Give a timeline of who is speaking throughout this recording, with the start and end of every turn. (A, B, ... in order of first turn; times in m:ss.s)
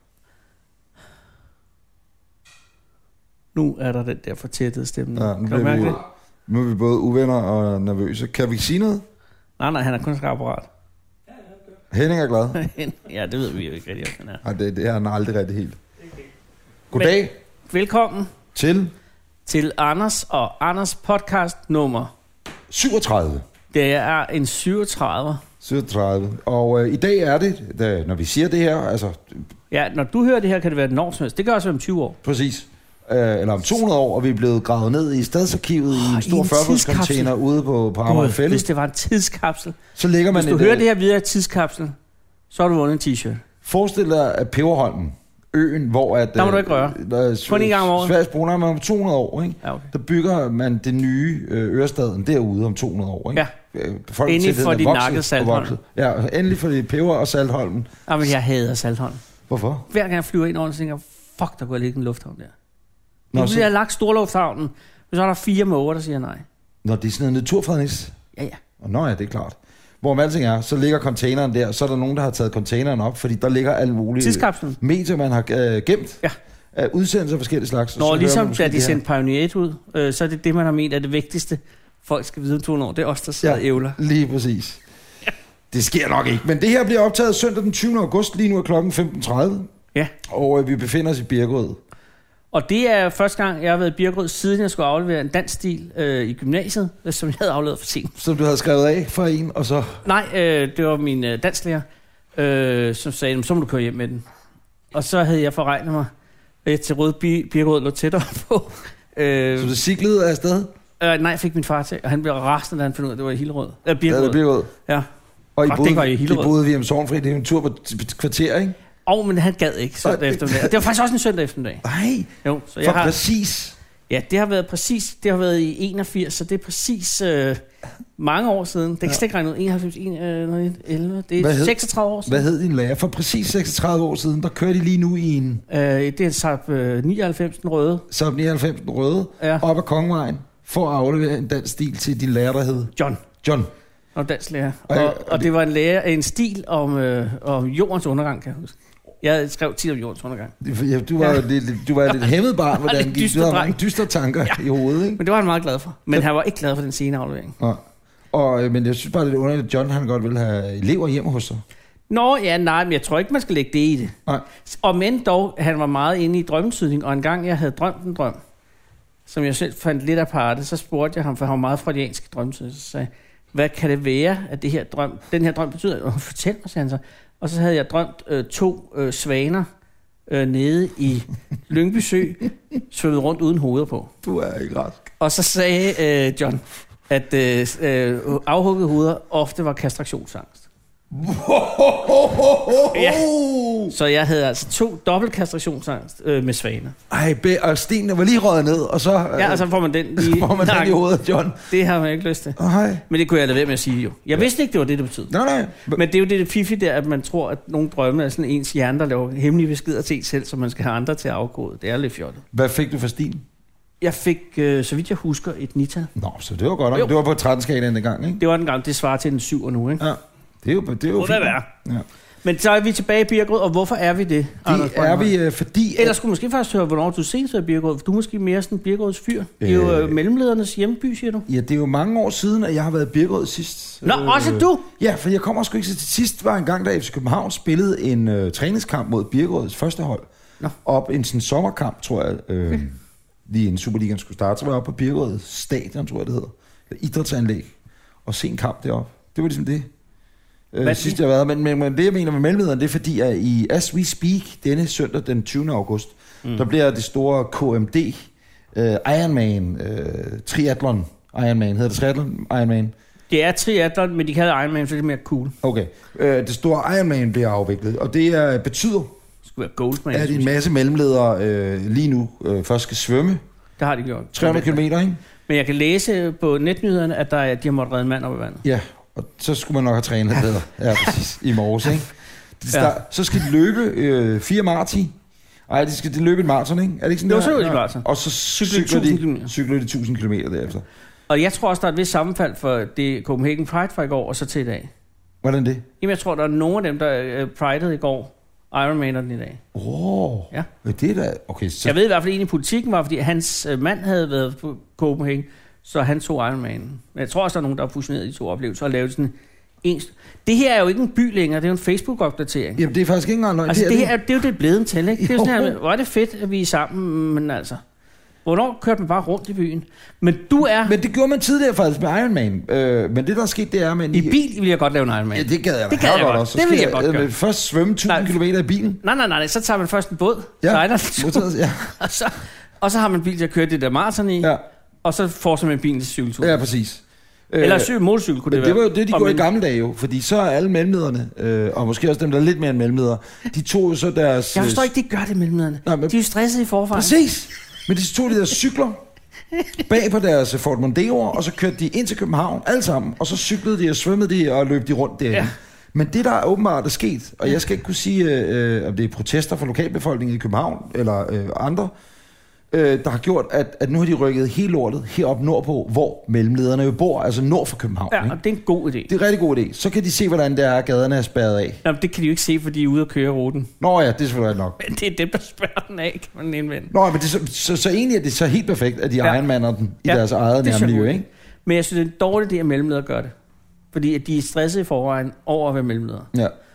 0:03.5-0:06.0 A
0:05.1-0:09.0 B
0:09.6-0:10.7 A
0:11.9-0:12.6 B
0:12.6-0:14.4 A
0:14.4-0:15.8 B
0:16.9-0:17.3 B
0:17.7-0:18.3 A
0:18.6-0:18.9 B
0:19.5-0:22.1 A
0:22.7-0:23.4 B
0:23.7-0:25.4 A
0:25.6-0:29.5 B
0:29.7-0:32.2 A
0:32.2-0:38.7 B
0:35.9-0:37.3 A
0:38.0-0:39.8 A
0:40.0-0:40.8 B
0:40.3-0:42.0 A
0:42.5-0:43.4 A
0:43.6-0:57.9 B
0:46.4-0:48.1 A
0:49.6-0:49.9 A
0:54.3-0:55.8 A
0:58.1-0:59.2 A
0:59.5-0:59.8 B
0:59.9-1:02.5 A
1:03.3-1:03.7 B
1:03.3-1:06.4 A
1:06.8-1:08.2 B
1:08.8-1:16.2 B
1:14.2-1:14.8 A
1:16.7-1:19.0 B
1:18.0-1:24.0 A
1:23.4-1:24.8 B
1:25.7-1:29.7 B
1:30.3-1:31.8 B
1:32.5-1:38.2 A
1:38.2-1:40.0 B
1:40.0-1:41.8 A
1:42.4-1:44.2 A
1:44.9-1:46.1 A
1:46.6-1:49.7 A
1:49.6-1:50.7 B
1:51.0-1:55.1 A
1:54.1-1:54.7 B
1:55.6-1:58.8 B
1:55.7-1:56.5 A
1:59.1-2:01.8 A
2:00.0-2:00.7 B
2:01.8-2:02.3 B
2:02.4-2:03.2 A
2:02.8-2:03.8 B
2:04.1-2:07.6 A
2:08.2-2:12.4 A
2:11.4-2:15.6 B
2:15.7-2:18.0 A
2:18.1-2:22.9 B
2:19.4-2:19.6 A
2:23.0-2:23.2 A
2:23.4-2:23.7 B
2:24.1-2:30.5 A
2:24.9-2:25.5 B
2:30.6-2:35.2 B
2:32.8-2:33.8 A
2:35.2-2:37.6 A
2:37.6-2:41.6 B
2:42.1-2:44.1 A
2:44.6-2:48.4 A
2:49.2-2:59.7 A
3:00.3-3:04.1 A
3:04.2-3:05.0 B
3:05.2-3:10.6 A
3:11.1-3:13.9 B
3:12.9-3:13.2 A
3:13.9-3:16.9 A
3:17.1-3:21.6 B
3:19.4-3:21.0 A
3:21.7-3:22.6 A
3:22.6-3:23.0 B
3:23.1-3:25.3 A
3:25.3-3:26.0 B
3:25.9-3:32.4 A
3:32.5-3:33.4 B
3:34.0-3:36.1 A
3:36.2-3:38.4 B
3:38.4-3:40.1 A
3:40.0-3:42.0 B
3:41.2-3:41.7 A
3:42.4-3:45.3 A
3:44.6-3:46.2 B
3:46.0-3:51.4 A
3:49.6-3:50.2 B
3:51.5-4:00.2 B
3:54.0-3:54.8 A
4:00.8-4:07.7 B
4:08.2-4:09.9 B
4:10.7-4:22.9 B
4:10.8-4:11.2 A
4:23.3-4:25.5 A
4:25.6-4:29.1 B
4:29.4-4:30.5 A
4:30.1-4:33.4 B
4:33.8-4:34.8 A
4:34.3-4:35.2 B
4:35.4-4:38.6 A
4:38.6-4:45.1 B
4:45.7-4:50.8 B
4:47.3-4:48.1 A
4:48.6-4:49.5 A
4:51.3-4:54.9 A
4:55.4-4:55.9 B
4:56.0-4:59.6 A
4:59.7-5:02.0 B
5:01.8-5:12.8 A
5:12.8-5:14.1 B
5:13.7-5:17.8 A
5:15.1-5:15.8 B
5:18.4-5:20.9 A
5:20.8-5:24.4 B
5:24.1-5:27.3 A
5:25.3-5:29.0 B
5:28.1-5:28.3 A
5:29.0-5:36.6 A
5:30.6-5:31.9 B
5:36.4-5:37.9 B
5:37.6-5:39.4 A
5:38.5-5:44.9 B
5:44.5-5:47.1 A
5:45.8-5:46.1 B
5:46.9-5:49.0 B
5:49.8-6:01.9 B
6:02.7-6:08.4 B
6:08.1-6:09.1 A
6:09.1-6:11.8 B
6:11.8-6:13.7 A
6:13.8-6:14.8 B
6:14.8-6:16.9 A
6:16.9-6:21.3 B
6:20.1-6:21.1 A
6:21.6-6:23.3 A
6:23.9-6:26.3 A